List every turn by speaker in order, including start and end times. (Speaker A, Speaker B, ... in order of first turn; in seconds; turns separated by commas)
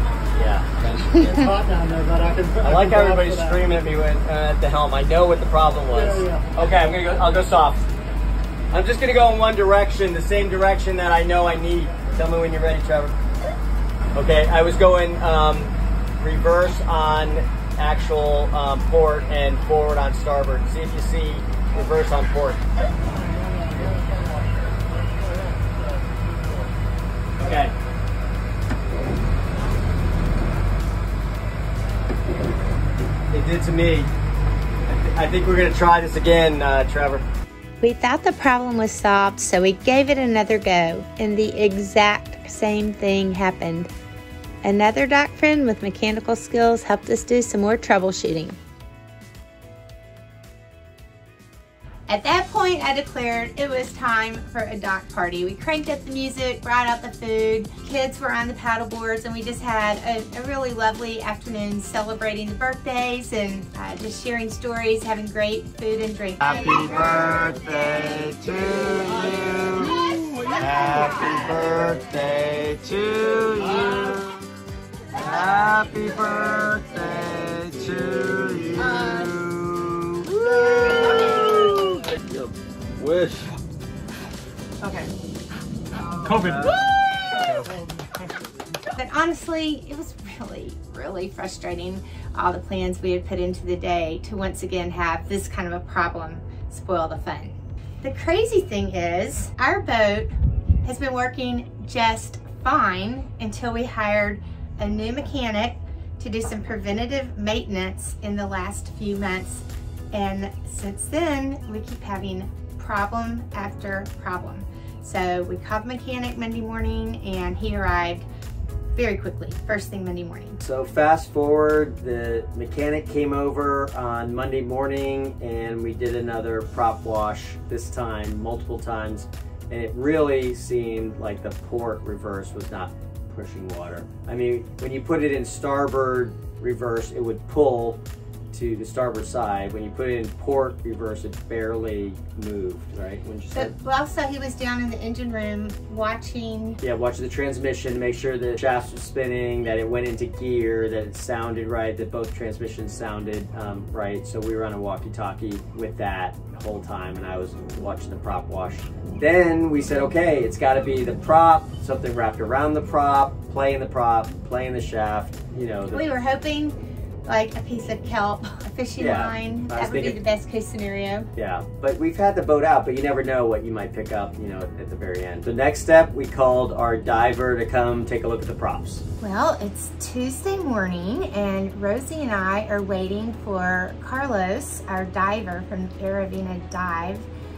Speaker A: 0.3-1.5, Speaker B: 1.1-1.5, Speaker C: 1.4-3.5, Speaker A: 2.6-7.8, Speaker C: 6.0-6.5, Speaker A: 8.7-13.2, Speaker A: 14.1-22.6, Speaker A: 27.4-27.7, Speaker A: 33.3-34.1, Speaker A: 34.9-37.2, Speaker B: 37.8-43.9, Speaker B: 44.6-48.6, Speaker B: 52.1-66.7, Speaker A: 66.4-74.4, Speaker A: 75.1-82.4, Speaker A: 83.0-83.5, Speaker A: 84.8-85.1, Speaker A: 86.0-87.7, Speaker B: 88.9-100.3, Speaker B: 100.8-118.2, Speaker B: 118.9-120.6, Speaker A: 120.6-138.0, Speaker A: 138.5-143.7, Speaker B: 143.5-146.8, Speaker A: 146.8-166.0, Speaker B: 165.9-171.3, Speaker A: 169.0-170.2, Speaker A: 171.3-179.0, Speaker B: 179.2-187.3